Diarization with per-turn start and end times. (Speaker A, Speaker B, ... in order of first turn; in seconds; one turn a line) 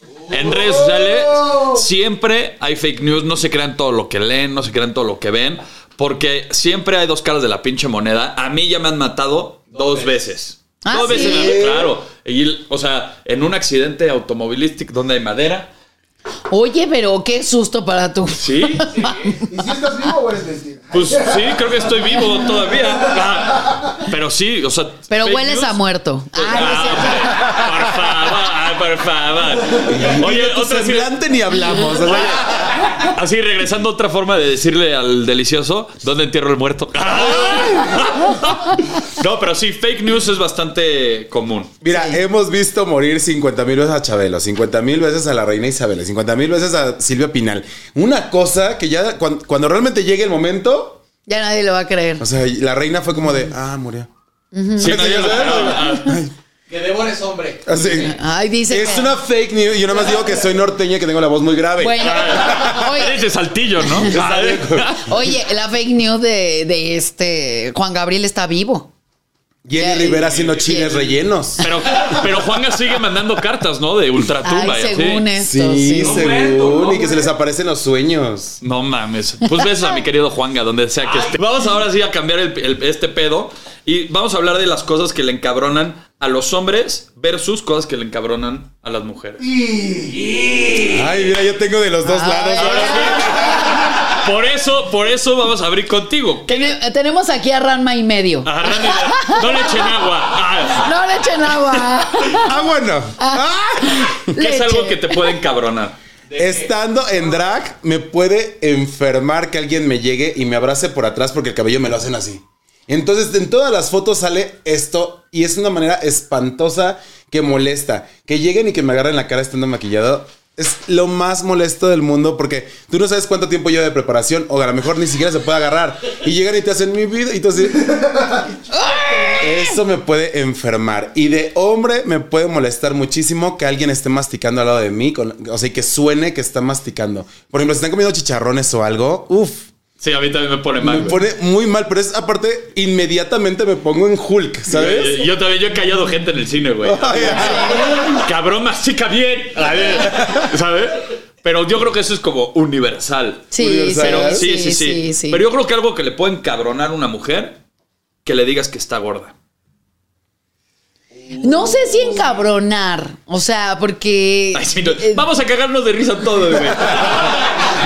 Speaker A: 0.3-15.7
Speaker B: 0.8-1.6
Speaker C: 9.7-10.1
Speaker D: 10.8-11.6
Speaker E: 11.1-11.9
Speaker D: 16.5-19.4
Speaker A: 18.4-18.9
Speaker C: 18.9-19.3
Speaker B: 19.5-23.8
Speaker A: 20.9-25.8
Speaker D: 25.1-27.6
Speaker A: 26.3-31.1
Speaker E: 29.8-32.9
Speaker A: 31.9-41.7
Speaker E: 37.2-38.0
Speaker E: 41.8-51.0
Speaker D: 41.9-42.2
Speaker D: 51.3-52.2
Speaker E: 52.2-54.1
Speaker D: 54.5-56.2
Speaker A: 54.8-56.2
Speaker E: 54.8-56.3
Speaker C: 56.7-57.8
Speaker E: 57.6-58.1
Speaker D: 57.9-59.1
Speaker E: 58.7-63.0
Speaker D: 61.8-63.2
Speaker A: 62.0-65.1
Speaker D: 63.8-64.3
Speaker E: 64.0-65.3
Speaker D: 64.9-68.9
Speaker E: 69.6-71.6
Speaker D: 69.8-71.7
Speaker A: 71.6-75.2
Speaker D: 74.4-76.3
Speaker E: 75.3-78.6
Speaker C: 76.0-77.3
Speaker A: 78.6-89.4
Speaker B: 89.4-90.3
Speaker C: 90.1-91.1
Speaker E: 90.8-93.8
Speaker D: 92.0-93.8
Speaker A: 92.5-96.7
Speaker D: 96.5-100.0
Speaker A: 98.4-100.9
Speaker D: 100.7-102.6
Speaker E: 102.4-104.3
Speaker D: 103.2-105.4
Speaker A: 104.3-106.0
Speaker C: 106.3-106.7
Speaker E: 106.3-127.9
Speaker B: 127.7-128.5
Speaker D: 128.7-129.8
Speaker E: 129.4-139.7
Speaker A: 140.0-141.2
Speaker E: 140.8-145.2
Speaker A: 144.7-157.6
Speaker E: 146.8-148.2
Speaker D: 147.1-148.1
Speaker E: 150.0-150.5
Speaker D: 153.5-155.4
Speaker E: 153.6-154.4
Speaker A: 158.2-159.3
Speaker D: 161.4-165.2
Speaker A: 164.5-167.5